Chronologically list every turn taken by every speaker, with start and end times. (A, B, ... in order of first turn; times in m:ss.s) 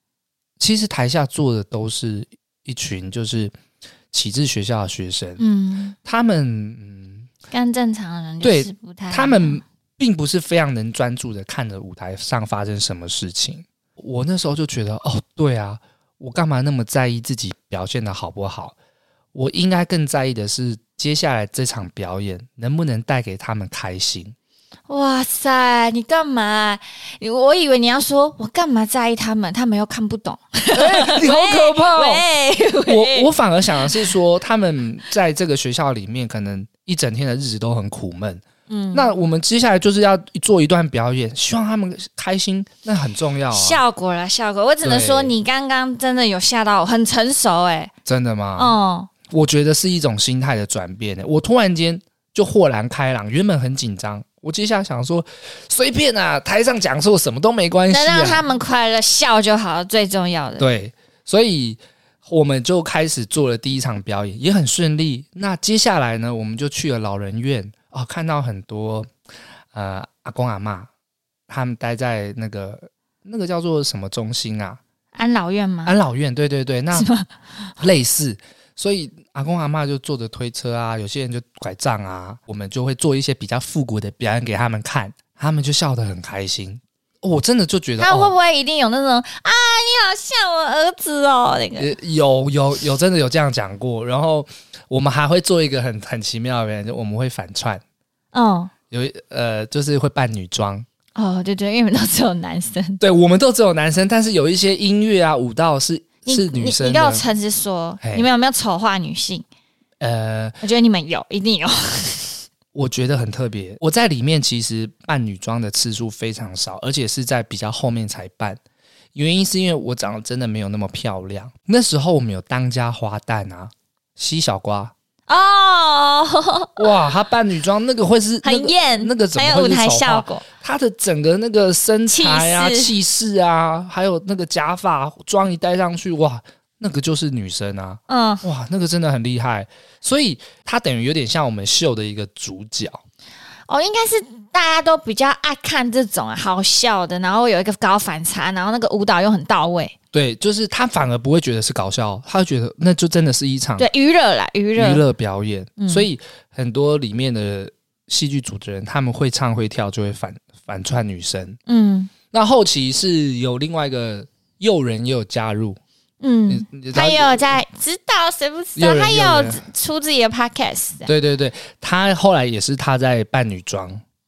0:00.6-0:03.5 A
0:04.1-0:05.4 A
0:05.4-0:06.0 B
0:06.0-0:07.3 A
0:07.5-0:09.6 B
0:08.4-0:18.8 A
0:19.3-0:24.4 A
0:24.9-0:34.1 B
0:30.8-0:32.2 A
0:32.9-0:43.8 A
0:38.7-0:39.1 B
0:43.5-0:47.9 B
0:44.8-0:45.3 A
0:48.1-0:48.8 A
0:48.6-0:49.1 B
0:49.3-0:58.4 A
0:57.9-1:00.7 B
1:00.6-1:09.1 A
1:09.7-1:10.9 A
1:11.5-1:14.8 A
1:15.2-1:16.0 B
1:15.9-1:17.1 A
1:16.9-1:17.3 B
1:17.8-1:28.3 A
1:28.0-1:31.9 B
1:31.8-1:37.8 A
1:38.3-1:38.7 B
1:38.9-1:40.9 A
1:41.2-1:43.0 B
1:43.0-1:47.2 A
1:46.3-1:49.4 B
1:48.0-1:48.3 A
1:50.0-1:50.6 A
1:50.6-1:52.4 B
1:52.7-1:58.6 A
1:59.2-2:04.9 A
2:05.3-2:07.0 B
2:06.8-2:23.0 A
2:08.4-2:10.4 B
2:12.1-2:12.9 B
2:18.1-2:18.4 B
2:23.7-2:30.0 B
2:30.1-2:33.9 A
2:33.8-2:35.0 B
2:34.8-2:41.6 A
2:35.8-2:36.1 B
2:41.7-2:42.1 B
2:42.3-2:45.8 A
2:46.2-2:51.1 B
2:46.5-2:47.6 A
2:48.8-2:49.6 A
2:51.1-2:54.0 A